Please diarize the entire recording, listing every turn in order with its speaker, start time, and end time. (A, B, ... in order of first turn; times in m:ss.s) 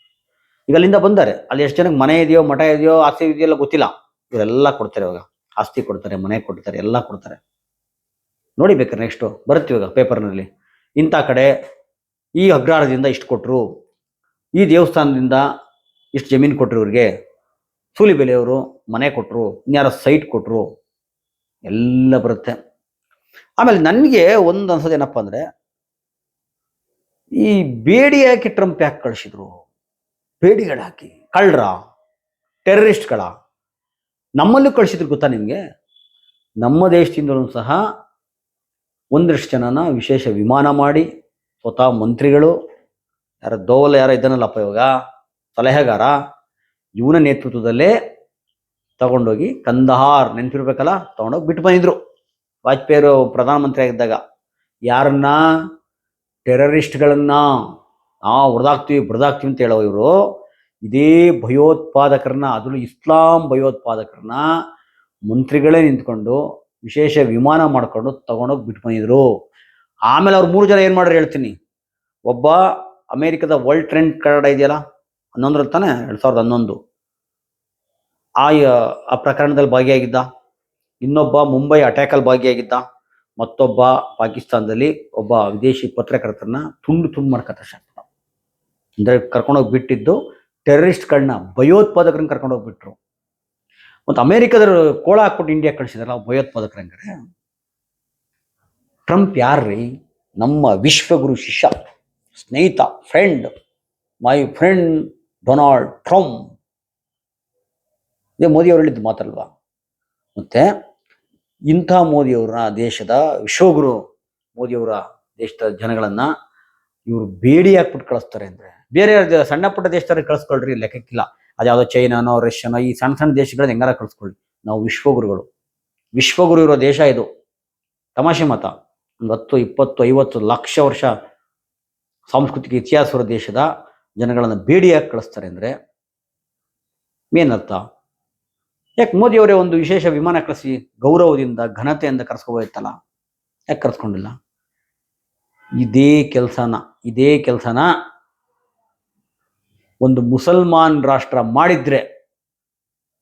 0:00.7-0:07.4 A
0:08.6-0:10.5 A
0:11.0-0:11.5 A
0:12.4-0:13.6 A
0:14.6-0:15.4 A
0:16.1-0:17.1 A
0:18.0-0:20.7 A
0:21.7-0:22.6 A
0:23.6-0:25.4 A
0:27.4-0:29.6 A
0:30.4-0:31.8 A
0:32.6-0:33.3 A
0:34.4-0:35.6 A
0:36.6-0:37.8 A
0:39.1-0:41.0 A
0:41.6-0:42.5 A
0:43.4-0:44.9 A
0:45.6-0:46.1 A
0:47.0-0:47.9 A
0:49.0-0:52.0 A
0:52.6-0:54.2 A
0:54.9-0:55.4 A
0:56.5-0:57.4 A
0:58.3-1:00.1 A
1:00.8-1:04.4 A
1:05.3-1:09.2 A
1:10.1-1:11.6 A
1:12.3-1:12.6 A
1:13.1-1:14.8 A
1:15.4-1:16.8 A
1:18.4-1:20.3 A
1:21.0-1:22.8 A
1:23.4-1:28.1 A
1:29.0-1:33.0 A
1:34.1-1:37.1 A
1:39.1-1:39.8 A
1:40.4-1:41.7 A
1:42.3-1:43.5 A
1:44.2-1:46.4 A
1:48.4-1:49.5 A
1:50.4-1:50.7 A
1:51.7-1:54.0 A
1:54.6-1:56.3 A
1:57.1-2:05.5 A
2:06.2-2:07.3 A
2:08.2-2:08.7 A
2:09.2-2:11.1 A
2:12.3-2:13.7 A
2:14.2-2:15.7 A
2:17.3-2:17.8 A
2:19.0-2:22.9 A
2:23.7-2:24.4 A
2:25.8-2:27.9 A
2:30.0-2:32.0 A